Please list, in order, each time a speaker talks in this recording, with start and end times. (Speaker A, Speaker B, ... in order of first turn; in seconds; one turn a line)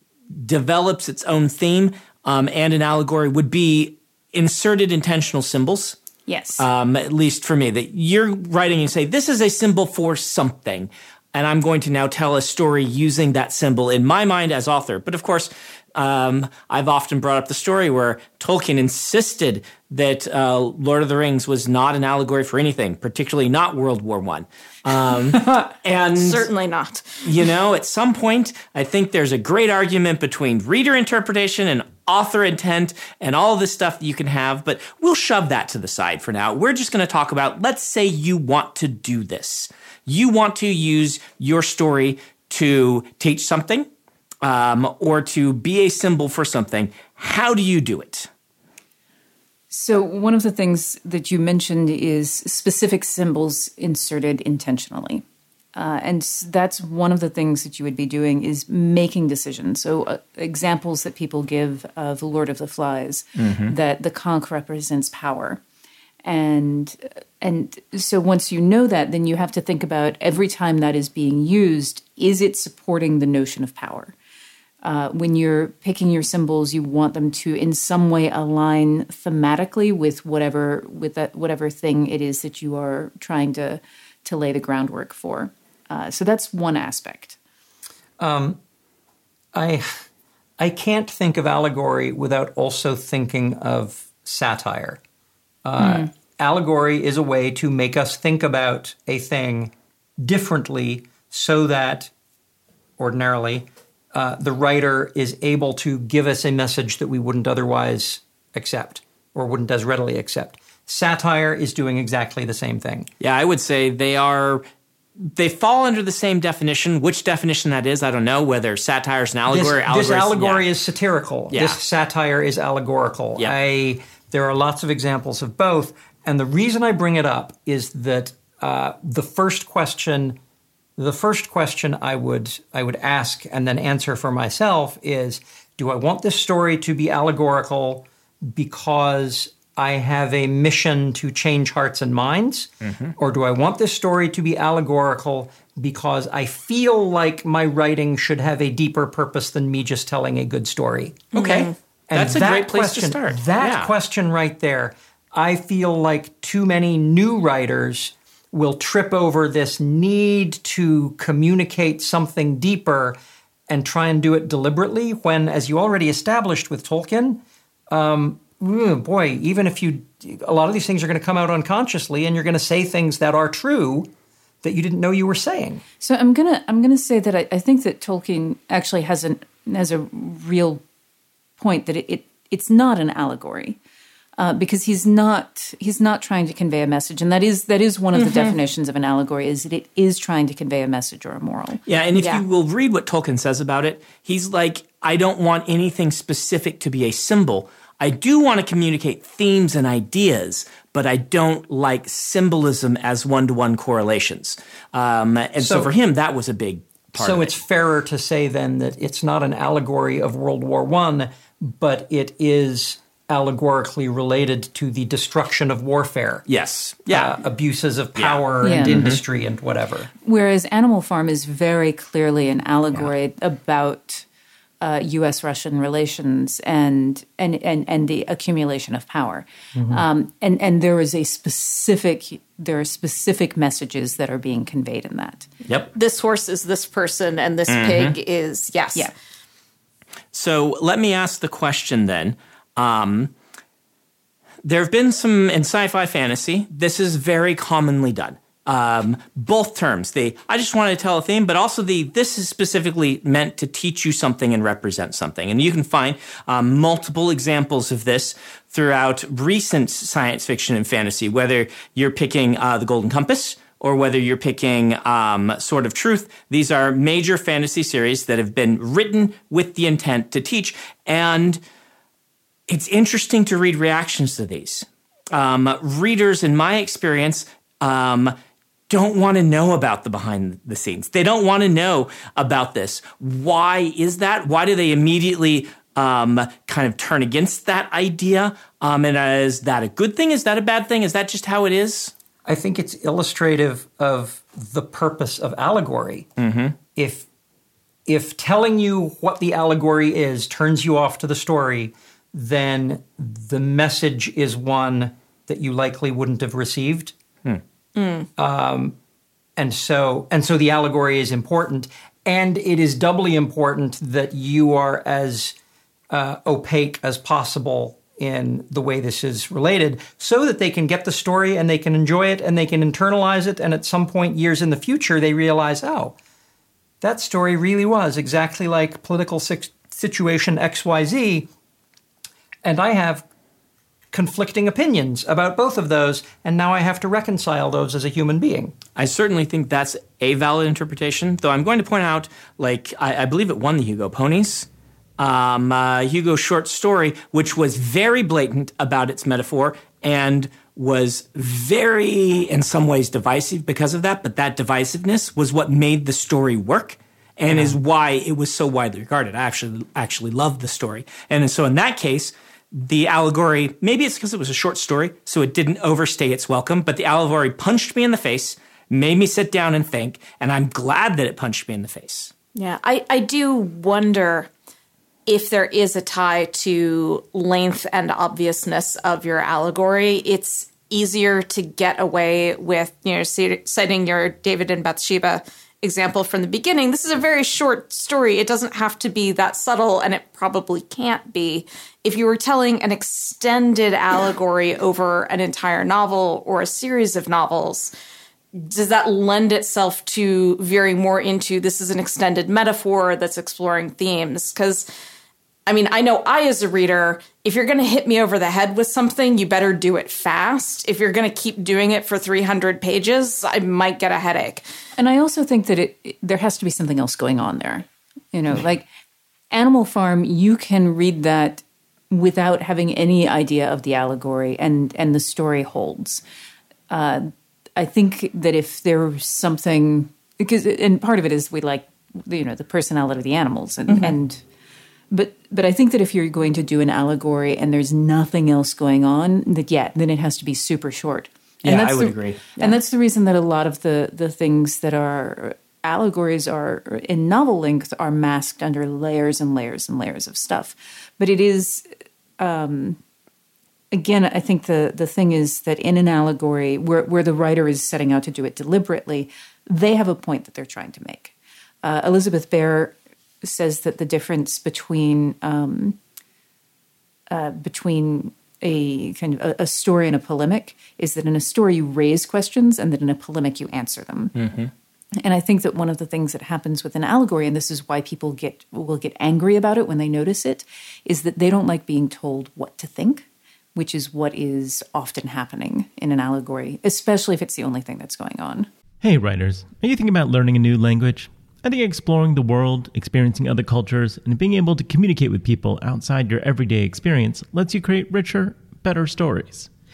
Speaker A: 0.3-6.0
Speaker B: 6.3-6.7
Speaker A: 6.6-26.5
Speaker C: 26.2-27.2
Speaker A: 27.2-43.9
Speaker A: 44.4-48.3
Speaker B: 49.7-65.6
Speaker A: 63.4-63.7
Speaker B: 66.2-74.2
Speaker B: 74.8-87.4
Speaker D: 88.2-88.6
Speaker D: 89.5-89.9
Speaker D: 90.6-95.0
Speaker D: 95.6-102.1
Speaker D: 103.0-113.1
Speaker A: 113.2-114.6
Speaker A: 115.2-120.7
Speaker D: 119.5-130.4
Speaker A: 121.5-121.8
Speaker D: 131.0-151.2
Speaker A: 142.8-143.1
Speaker C: 151.3-151.7
Speaker A: 151.3-153.9
Speaker D: 152.1-163.2
Speaker D: 163.7-174.1
Speaker D: 174.6-175.8
Speaker B: 176.0-180.8
Speaker B: 181.6-183.8
Speaker B: 184.4-192.4
Speaker A: 188.2-188.6
Speaker A: 191.9-207.6
Speaker D: 205.6-205.9
Speaker D: 207.2-216.4
Speaker A: 216.4-217.3
Speaker D: 217.1-220.1
Speaker A: 218.2-219.2
Speaker B: 218.6-219.1
Speaker B: 220.2-224.2
Speaker B: 224.8-235.5
Speaker D: 229.8-230.0
Speaker C: 235.9-239.1
Speaker A: 237.7-238.2
Speaker A: 240.3-243.3
Speaker A: 244.7-271.6
Speaker A: 272.7-278.4
Speaker A: 278.9-292.1
Speaker D: 292.4-296.3
Speaker A: 296.4-296.8
Speaker D: 296.9-297.2
Speaker D: 298.1-307.1
Speaker C: 307.9-308.3
Speaker D: 308.4-308.9
Speaker D: 309.6-315.6
Speaker D: 316.1-326.1
Speaker D: 327.0-331.5
Speaker D: 332.6-333.3
Speaker D: 334.1-338.8
Speaker A: 338.9-344.7
Speaker A: 345.2-372.3
Speaker D: 357.5-357.8
Speaker C: 372.6-374.5
Speaker C: 375.3-397.9
Speaker C: 398.5-404.9
Speaker C: 405.7-414.6
Speaker B: 415.0-418.9
Speaker B: 419.5-426.2
Speaker B: 426.9-434.4
Speaker B: 435.1-451.9
Speaker A: 441.6-442.4
Speaker B: 452.4-453.0
Speaker B: 453.9-466.0
Speaker B: 467.3-474.3
Speaker A: 474.4-474.7
Speaker B: 475.2-488.7
Speaker E: 489.0-499.7